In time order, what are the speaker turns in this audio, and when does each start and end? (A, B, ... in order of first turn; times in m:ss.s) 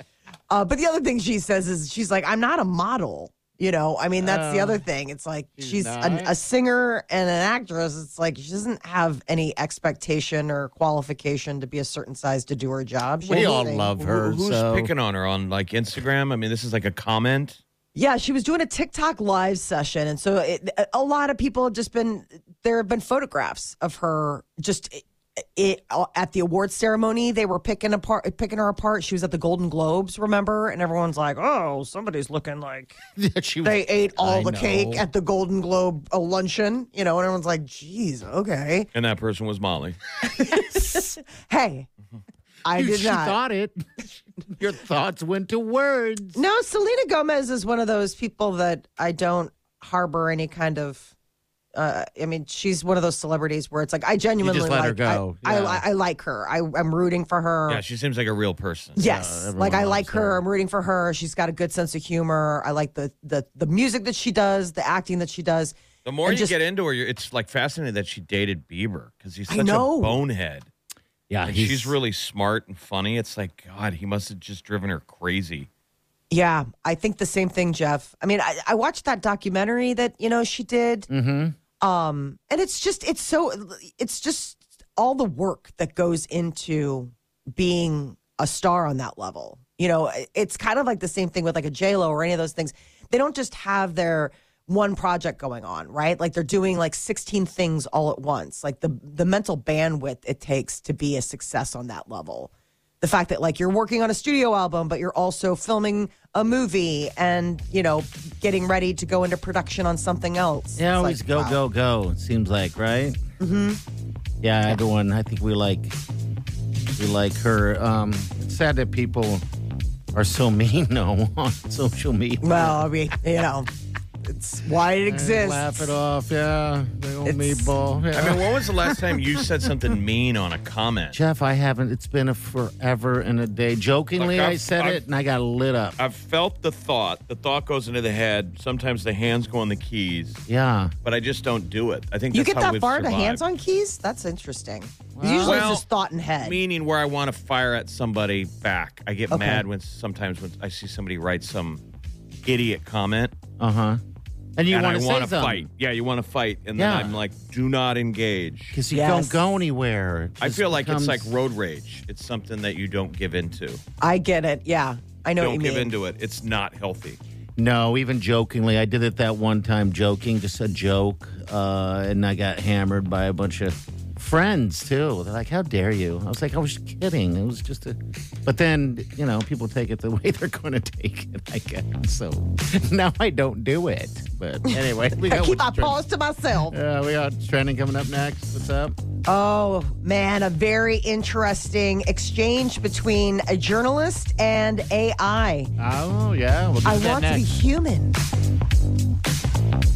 0:00.5-0:13.9 A
0:04.2-0:04.8 B
0:05.6-0:06.3 B
0:13.2-0:14.9 B
0:14.0-0:17.6 C
0:17.9-0:25.0 A
0:25.6-0:33.0 A
0:33.2-0:35.0 B
0:33.6-0:38.9 A
0:38.9-0:40.0 C
0:40.2-0:41.9 A
0:42.6-0:43.4 A
0:42.7-0:46.4 B
0:46.4-0:51.1 A
0:51.8-0:57.8 A
0:54.4-0:55.8 B
0:57.7-0:59.0 C
0:59.0-1:00.4 B
0:59.0-1:06.5 A
1:06.0-1:10.7 C
1:09.5-1:10.2 A
1:11.3-1:12.0 B
1:11.4-1:15.7 C
1:16.3-1:21.1 A
1:21.1-1:21.6 B
1:21.8-1:42.5 A
1:43.0-1:51.6 A
1:50.8-1:53.2 B
1:53.4-1:53.8 A
1:54.4-1:56.0 B
1:57.0-1:59.4 B
2:00.1-2:02.9 B
2:02.4-2:03.7 A
2:04.3-2:05.9 A
2:05.1-2:09.2 B
2:07.2-2:07.7 A
2:08.1-2:11.2 C
2:11.1-2:16.0 B
2:14.2-2:15.0 C
2:16.0-2:20.4 C
2:20.5-2:20.9 B
2:21.0-2:23.4 C
2:22.3-2:26.6 A
2:25.1-2:25.7 B
2:25.4-2:25.8 C
2:26.4-2:31.8 C
2:29.3-2:29.6 A
2:32.4-2:33.3 C
2:33.6-2:34.0 B
2:34.6-2:35.7 B
2:34.7-2:38.7 C
2:36.8-2:37.2 B
2:38.7-2:41.3 B
2:38.9-2:39.4 A
2:40.4-2:43.8 C
2:44.0-2:45.9 A
2:45.4-2:47.2 C
2:47.6-3:06.0 B
3:04.7-3:06.8 A
3:06.7-3:09.0 B
3:09.3-3:15.7 A
3:15.8-3:17.5 B
3:16.8-3:18.2 A